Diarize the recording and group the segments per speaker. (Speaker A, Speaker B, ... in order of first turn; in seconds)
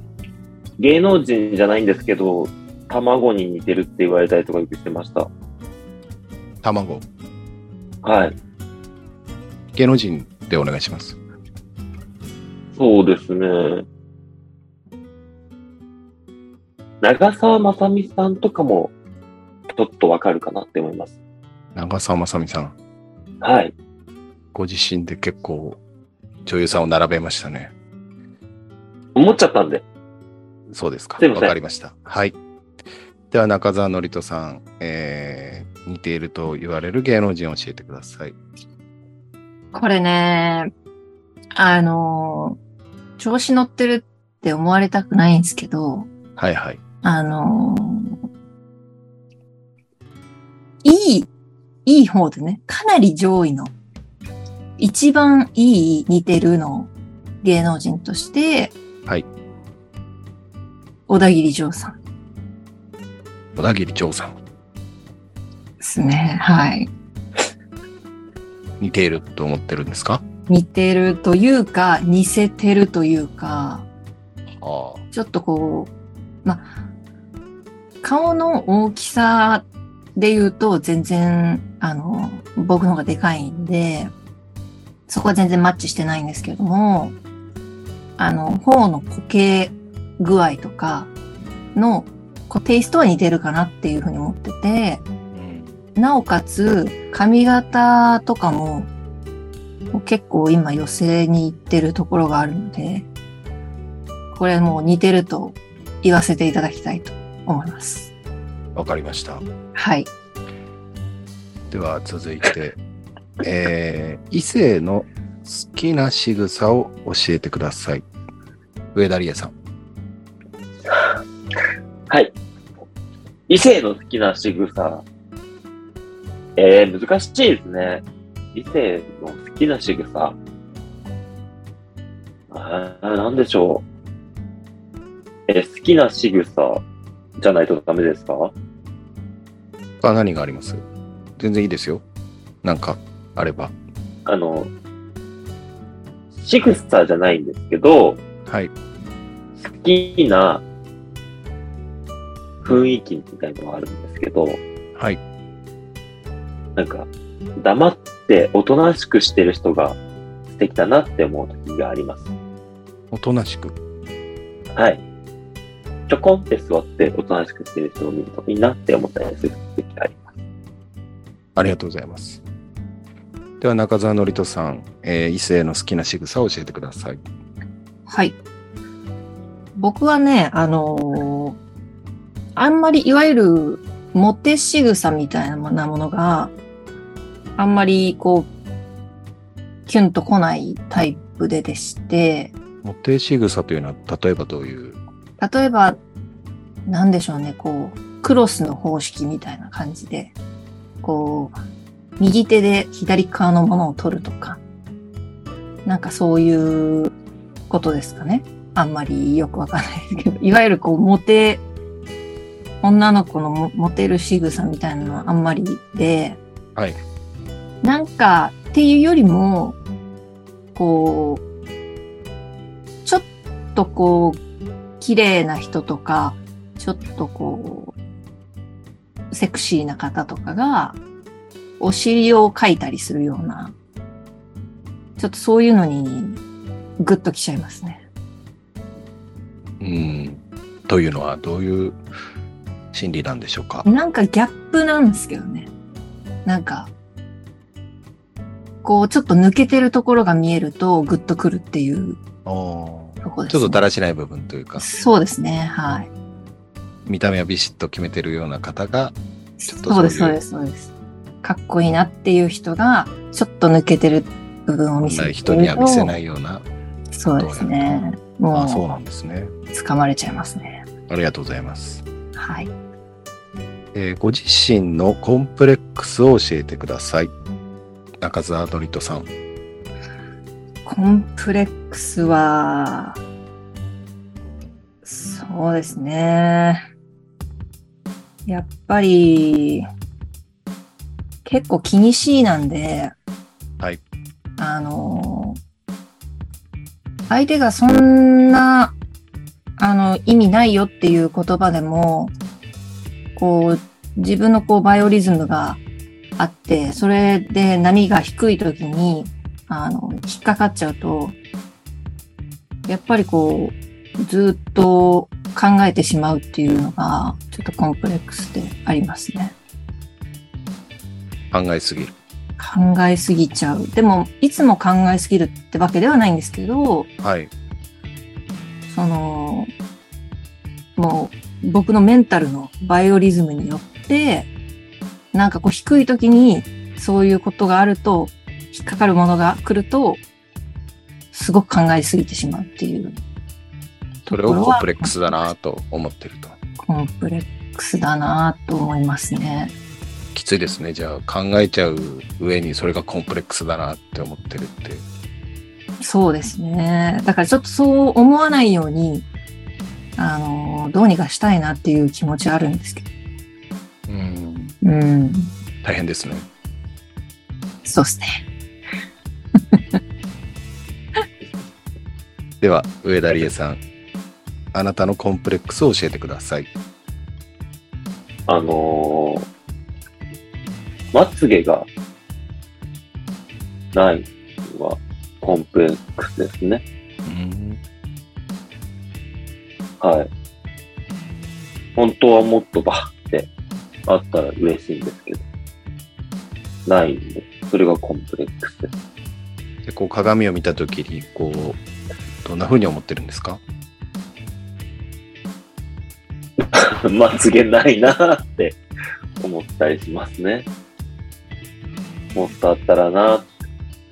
Speaker A: 0.8-5.3, 8.0-8.3, 12.8-13.8, 17.0-18.9, 19.7-21.1, 23.4-23.7, 29.1-29.8, 31.2-31.5, 120.8-121.2, 123.5-125.0, 126.6-130.4, 132.5-133.8, 135.5-136.8, 137.4-138.5, 144.2-144.7, 146.3-148.2, 149.6-150.6, 152.6-154.6, 156.8-162.3, 164.7-165.0, 166.1-170.2, 378.5-379.5, 381.1-381.9, 383.9-386.8, 390.0-390.3, 391.9-393.5, 394.1-395.4, 396.9-398.9, 406.6-408.8, 409.4-410.7, 412.3-413.5
Speaker B: 6.6-7.0, 9.7-11.2, 21.7-22.7, 24.5-25.8, 26.4-27.7, 30.7-32.4, 33.3-38.4, 46.4-46.8, 63.5-64.4, 68.8-70.2, 74.6-75.0, 95.3-95.8, 108.7-109.4, 111.7-112.8, 113.4-118.0, 118.9-119.5, 140.0-140.8, 141.4-142.0, 142.6-143.7, 148.4-148.7, 154.9-155.2, 163.1-163.8, 171.5-172.4, 173.6-177.2, 192.8-195.0, 239.8-242.0, 242.9-243.8, 252.4-254.8, 257.1-259.1, 259.7-260.4, 265.0-266.6, 267.4-267.7, 268.5-269.5, 271.1-272.0, 273.9-277.3, 278.2-279.3, 321.5-322.1, 327.2-327.5, 344.3-346.6, 350.3-355.0, 364.1-364.7, 365.8-366.5, 372.6-373.8, 374.7-376.7, 387.2-387.8, 399.8-401.8, 402.4-403.6
Speaker C: 39.7-40.7, 41.5-42.6, 43.2-46.1, 47.0-48.2, 50.8-51.3, 51.9-53.7, 54.8-56.9, 57.4-58.8, 61.1-62.0, 65.8-66.9, 70.5-73.9, 75.1-75.9, 76.4-76.7, 78.0-84.1, 85.1-87.2, 88.2-91.1, 91.7-95.0, 96.0-98.9, 99.9-103.1, 104.3-108.1, 109.7-110.1, 178.1-178.4, 179.8-181.6, 182.6-186.5, 187.6-188.5, 189.9-192.5, 195.4-196.0, 196.8-200.3, 201.0-201.6, 202.2-204.6, 205.8-207.1, 207.7-211.6, 212.8-216.4, 217.8-219.8, 220.7-221.4, 223.0-224.4, 225.0-227.9, 229.3-231.0, 231.8-233.8, 235.2-236.4, 237.0-238.1, 243.8-245.7, 246.4-246.9, 248.8-252.2, 253.2-253.8, 254.8-256.1, 259.6-260.9, 261.4-266.1, 267.1-268.8, 269.7-270.9, 272.4-272.7, 280.8-283.2, 285.0-286.8, 288.4-289.9, 291.4-293.1, 294.6-295.6, 297.3-298.9, 299.8-302.3, 303.4-305.8, 306.4-311.4, 312.9-319.6, 322.6-327.1, 328.9-329.7, 331.0-334.5, 335.3-340.2, 341.3-343.2, 344.2-345.5, 346.8-349.7, 356.0-359.2, 360.2-363.1, 364.8-365.5, 367.8-368.4